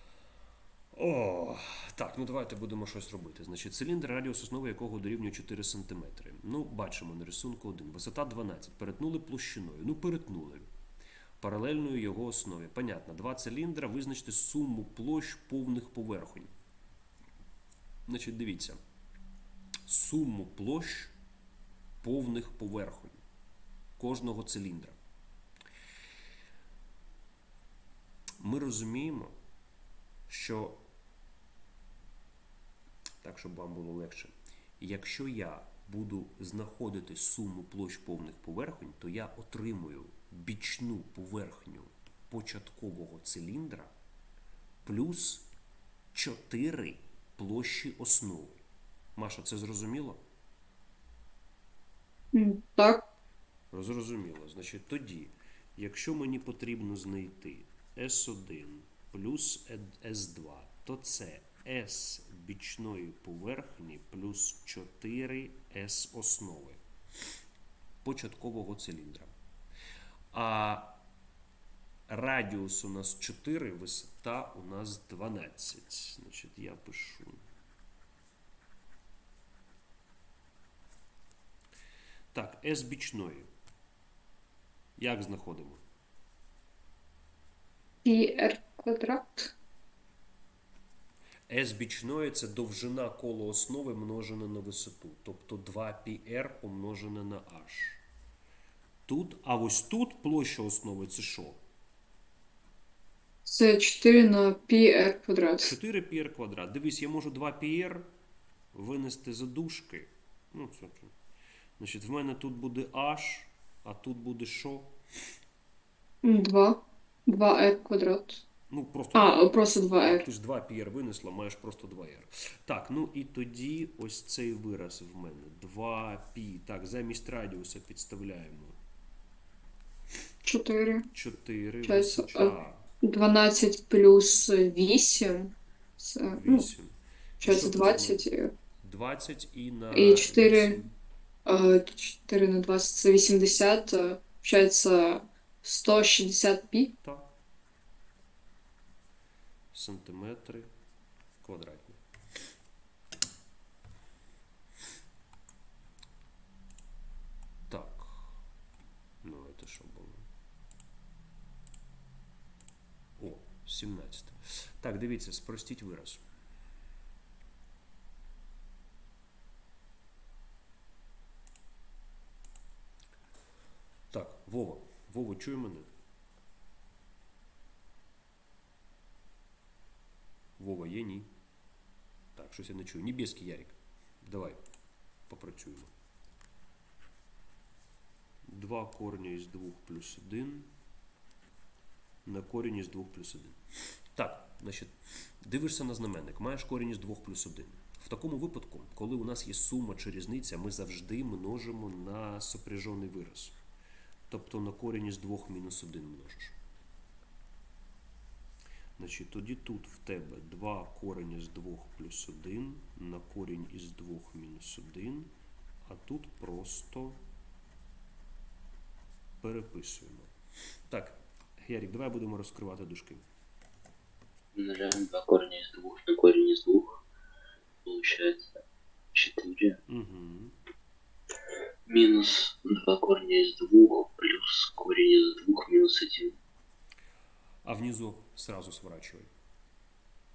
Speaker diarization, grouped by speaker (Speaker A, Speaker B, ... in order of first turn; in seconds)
Speaker A: 0.9-10.7, 11.4-16.5, 18.1-18.8, 19.9-21.1, 22.0-23.2, 24.0-25.0, 28.4-29.3, 30.3-30.8, 33.2-43.9, 44.8-45.5, 46.1-48.6, 49.1-50.2, 53.7-66.8, 68.0-69.3, 70.3-71.0, 72.1-77.4, 82.3-83.5, 85.0-85.8, 91.5-98.0, 99.0-101.6, 105.6-108.0, 108.7-111.1, 111.8-115.0, 118.7-128.8, 131.1-132.8, 136.3-138.2, 138.8-140.9, 147.0-147.3, 149.7-150.7, 151.4-152.0, 157.7-158.4, 159.2-160.3, 163.2-166.2, 174.1-175.9, 180.6-181.3, 182.3-184.6, 185.3-185.9, 188.5-190.7, 192.2-193.6, 194.1-203.6, 204.3-206.6, 209.0-215.3, 215.8-217.2, 219.4-220.3, 220.9-223.2, 229.9-230.5, 237.6-239.3
Speaker B: 52.3-53.0, 88.0-89.5, 103.4-105.7, 116.2-118.4, 119.1-120.2, 130.4-131.1, 131.8-132.5, 133.0-136.7, 137.4-138.5, 139.9-140.8, 141.4-146.9
Speaker C: 224.5-227.0, 227.8-228.6, 229.1-229.8, 231.9-236.3